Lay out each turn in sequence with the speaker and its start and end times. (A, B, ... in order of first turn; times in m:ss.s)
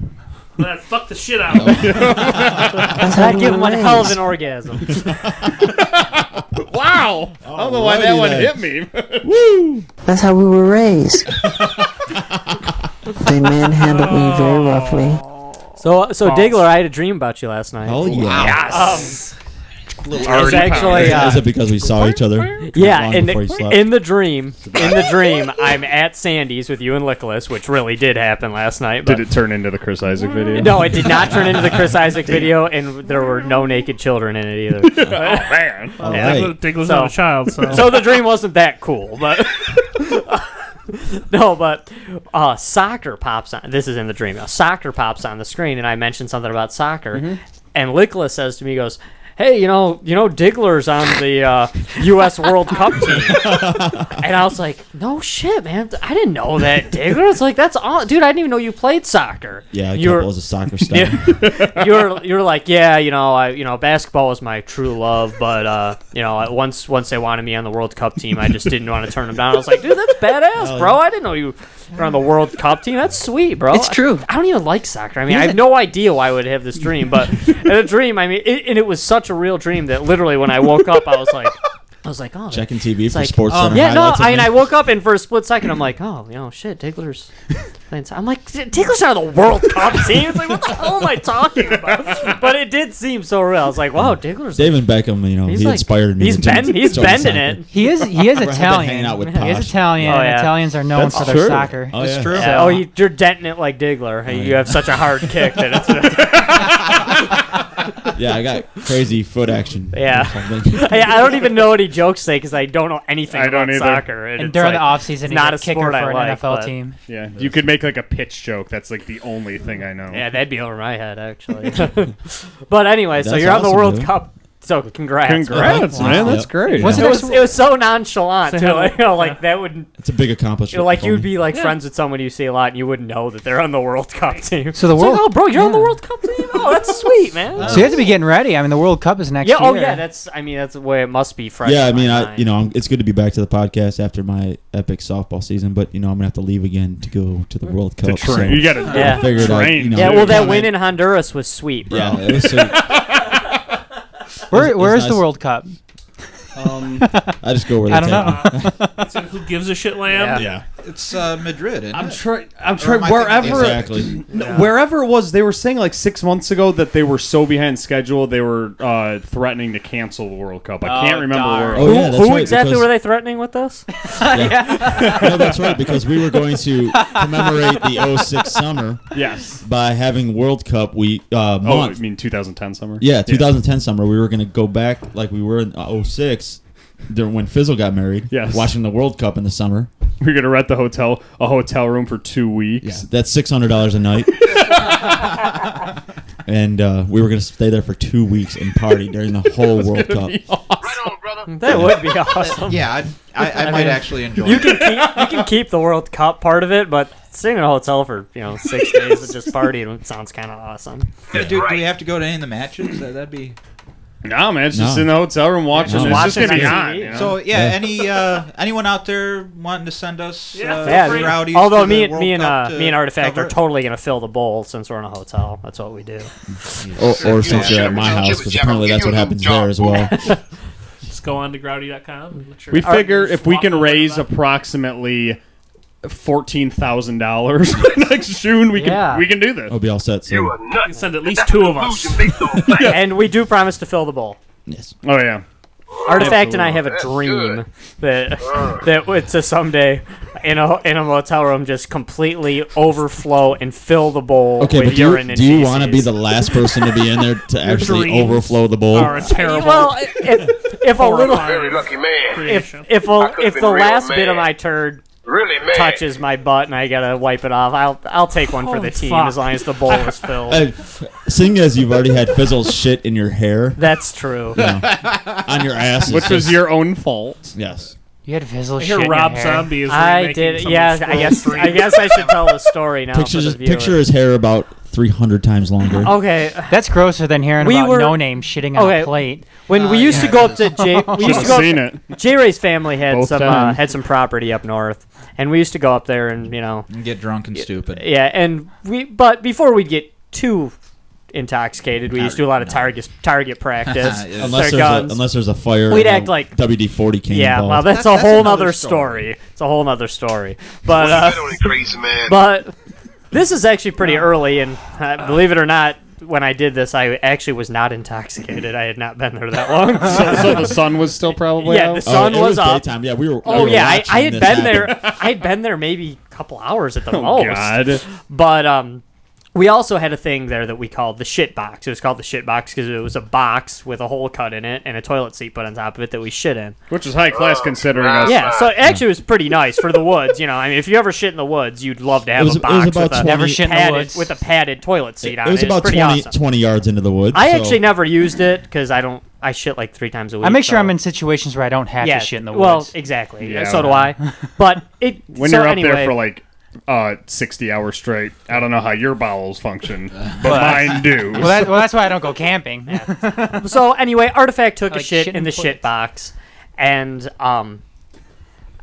0:00.6-0:02.7 A
0:01.5-0:02.8 B
0:01.6-0:03.0 C
0:03.0-0:04.2 D
0:03.0-0:05.0 E
0:05.1-0:05.3 B
0:05.6-0:09.3 C
0:07.4-0:08.6 B
0:09.2-0:09.9 B
0:10.0-0:11.3 D
0:11.4-0:12.1 B
0:13.2-0:15.2 D
0:13.8-0:15.5 A
0:15.8-0:19.2 E
0:16.3-0:16.6 A
0:17.8-0:18.7 B
0:18.0-0:19.2 F
0:20.0-0:21.4 F
0:20.2-0:21.4 C
0:20.2-0:21.4 E
0:20.8-0:24.0 B
0:22.6-0:29.2 E
0:24.6-0:25.1 C
0:24.8-0:25.4 F
0:29.0-0:31.1 C
0:30.6-0:53.6 E
0:34.8-0:36.0 C
0:36.0-0:38.1 A
0:36.0-0:36.6 B
0:53.1-0:54.2 B
0:54.2-1:00.3 E
0:59.7-1:01.4 B
1:00.9-1:27.3 E
1:01.4-1:01.8 C
1:10.6-1:11.0 B
1:13.7-1:14.3 D
1:15.3-1:15.6 G
1:22.5-1:24.7 B
1:23.5-1:24.0 F
1:27.9-1:34.9 E
1:32.0-1:32.2 C
1:34.0-1:40.4 B
1:35.4-1:37.7 E
1:37.7-1:42.9 G
1:39.2-1:40.7 E
1:40.9-1:41.7 C
1:41.1-1:42.5 B
1:41.9-1:42.7 F
1:42.4-1:47.1 E
1:44.3-1:45.0 B
1:48.1-1:51.4 B
1:49.9-1:56.7 E
1:53.3-1:54.1 C
1:54.4-1:57.0 G
1:57.1-2:00.2 C
2:00.1-2:09.9 E
2:03.1-2:04.2 B
2:05.2-2:07.1 C
2:05.5-2:07.1 B
2:05.5-2:07.6 G
2:08.5-2:09.4 A
2:10.0-2:11.3 B
2:10.7-2:18.1 E
2:11.5-2:11.8 A
2:14.7-2:16.0 G
2:17.6-2:18.1 F
2:17.6-2:18.0 B
2:17.7-2:20.0 G
2:19.4-2:22.5 E
2:21.6-2:30.7 B
2:28.0-2:30.8 C
2:28.9-2:32.2 E
2:31.9-2:33.0 B
2:32.6-2:33.0 C
2:34.5-2:35.8 G
2:34.5-2:35.3 B
2:36.6-2:37.1 C
2:37.0-2:39.1 G
2:37.4-2:38.8 B
2:38.0-2:40.5 A
2:40.1-2:40.5 E
2:40.4-2:40.6 B
2:40.8-2:42.2 F
2:41.9-2:52.0 C
2:42.8-2:44.0 F
2:43.4-2:44.2 B
2:44.3-2:44.7 E
2:50.8-2:52.2 G
2:51.7-2:52.9 B
2:51.8-2:53.9 E
2:54.1-2:55.5 G
2:54.3-3:02.0 B
2:54.9-2:55.8 C
2:56.9-2:58.0 G
2:59.1-2:59.6 C
3:01.6-3:03.5 C
3:03.0-3:09.9 B
3:08.3-3:08.7 C
3:10.2-3:13.0 C
3:12.8-3:14.6 B
3:16.5-3:20.4 B
3:19.6-3:21.1 C
3:20.8-3:21.6 H
3:21.5-3:22.9 E
3:21.7-3:22.1 B
3:22.4-3:24.9 F
3:23.4-3:31.1 E
3:25.0-3:25.3 C
3:31.3-3:33.6 F
3:31.4-3:31.9 H
3:34.2-3:37.4 C
3:34.7-3:35.3 B
3:35.8-3:38.0 B
3:35.8-3:37.2 E
3:37.1-3:43.6 F
3:40.5-3:41.6 A
3:40.8-3:46.8 E
3:46.8-3:48.3 F
3:47.0-3:50.2 B
3:47.2-3:50.1 H
3:51.1-3:54.3 A
3:52.7-3:55.4 C
3:52.8-3:53.1 E
3:56.0-3:59.8 C
3:58.8-3:59.3 E
3:59.7-4:00.6 B
4:00.3-4:03.1 H
4:00.8-4:02.4 A
4:02.8-4:04.4 E
4:04.7-4:05.0 B
4:05.0-4:05.4 C
4:05.9-4:07.6 H
4:06.1-4:16.1 E
4:06.2-4:06.8 C
4:08.4-4:08.8 H
4:14.6-4:19.3 B
4:17.6-4:20.2 A
4:19.0-4:21.6 E
4:20.9-4:22.9 A
4:21.3-4:22.5 H
4:22.4-4:25.0 E
4:23.0-4:24.5 H
4:25.2-4:26.1 H
4:25.7-4:30.6 E
4:28.6-4:30.2 A
4:30.5-4:33.8 B
4:33.8-4:34.6 E
4:34.5-4:36.7 B
4:36.1-4:37.5 C
4:37.5-4:37.9 B
4:38.3-4:39.8 G
4:38.8-4:42.4 A
4:39.9-4:44.0 E
4:43.1-4:46.2 B
4:46.0-4:46.8 E
4:46.7-4:51.7 G
4:47.6-4:56.9 E
4:49.7-4:50.6 F
4:51.2-4:52.0 C
4:53.1-4:53.8 C
4:56.9-4:58.0 F
4:57.6-5:00.7 E
5:01.3-5:05.2 E
5:02.2-5:02.9 F
5:03.8-5:04.9 F
5:04.3-5:08.0 B
5:05.9-5:06.6 E
5:07.3-5:11.7 E
5:07.8-5:09.3 F
5:10.9-5:12.4 H
5:12.3-5:12.8 E
5:13.3-5:20.7 E
5:20.0-5:22.0 C
5:21.6-5:22.9 E
5:22.0-5:25.1 B
5:23.4-5:29.0 E
5:24.7-5:25.0 C
5:27.1-5:28.0 C
5:29.6-5:36.8 E
5:36.9-5:38.5 C
5:37.3-5:38.8 H
5:38.2-5:46.4 E
5:42.4-5:43.6 B
5:43.2-5:44.4 G
5:45.2-5:47.8 B
5:47.3-5:51.0 E
5:50.4-5:53.0 G
5:52.0-5:56.2 E
5:53.4-5:54.1 C
5:55.3-6:01.9 C
6:00.4-6:03.7 G
6:02.9-6:07.8 E
6:04.9-6:05.8 G